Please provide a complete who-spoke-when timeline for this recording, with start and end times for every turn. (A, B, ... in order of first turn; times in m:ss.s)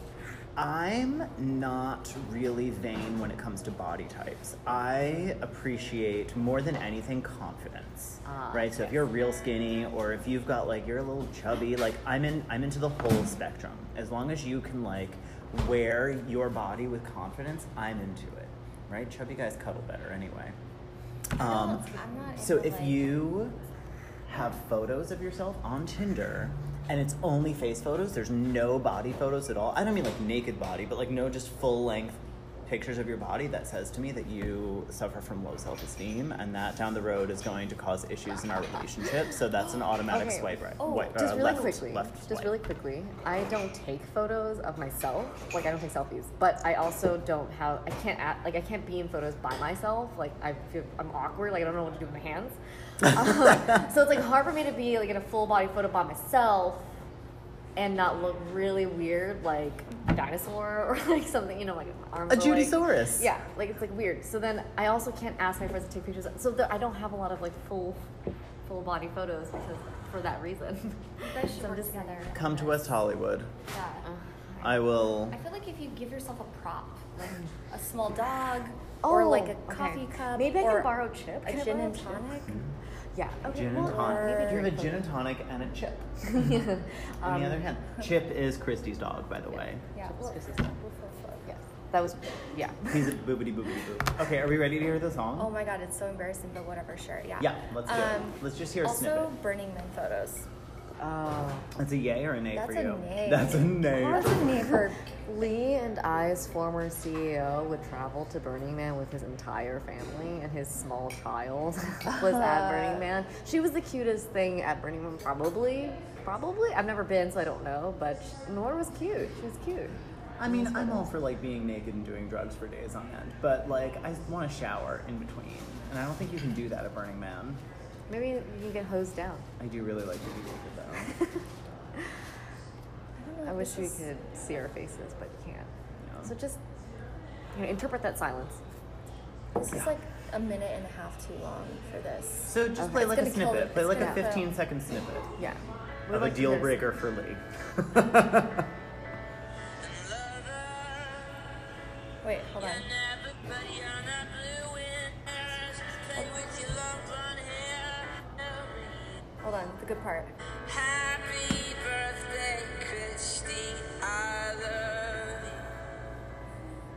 0:00.6-0:20.6 A
0:08.2-0:09.0 B
0:21.4-0:21.8 A
0:21.4-0:23.2 C
0:22.4-0:23.6 A
0:24.3-0:42.6 A
0:40.1-0:56.9 B
0:40.8-0:41.5 C
0:57.8-1:08.0 B
1:02.3-1:03.3 A
1:08.6-1:12.5 B
1:11.2-1:12.7 C
1:12.3-1:13.5 A
1:13.7-1:14.0 C
1:14.0-1:14.7 B
1:14.6-1:15.4 A
1:15.3-1:22.6 C
1:19.0-1:22.2 B
1:23.1-1:25.0 B
1:23.5-1:26.6 A
1:23.7-1:24.7 C
1:26.2-1:27.6 B
1:27.2-1:29.8 A
1:29.9-1:31.4 C
1:30.0-1:30.7 B
1:31.4-1:33.2 B
1:32.9-1:35.5 A
1:35.4-1:40.5 C
1:37.4-1:39.3 A
1:41.0-1:41.7 B
1:41.8-1:44.6 A
1:42.5-1:45.0 C
1:45.2-2:01.1 B
1:52.2-1:53.0 C
2:00.4-2:07.6 A
2:08.1-2:09.5 B
2:09.6-2:11.1 A
2:13.2-2:14.0 C
2:13.4-2:15.7 B
2:16.0-2:16.3 A
2:16.2-2:16.6 B
2:17.5-2:18.6 B
2:19.6-2:24.5 C
2:22.5-2:25.3 A
2:22.8-2:23.2 B
2:25.4-2:26.8 B
2:26.1-2:28.6 A
2:29.8-2:31.5 D
2:32.2-2:32.8 C
2:32.6-2:39.3 D
2:39.4-2:40.3 C
2:40.6-2:45.7 D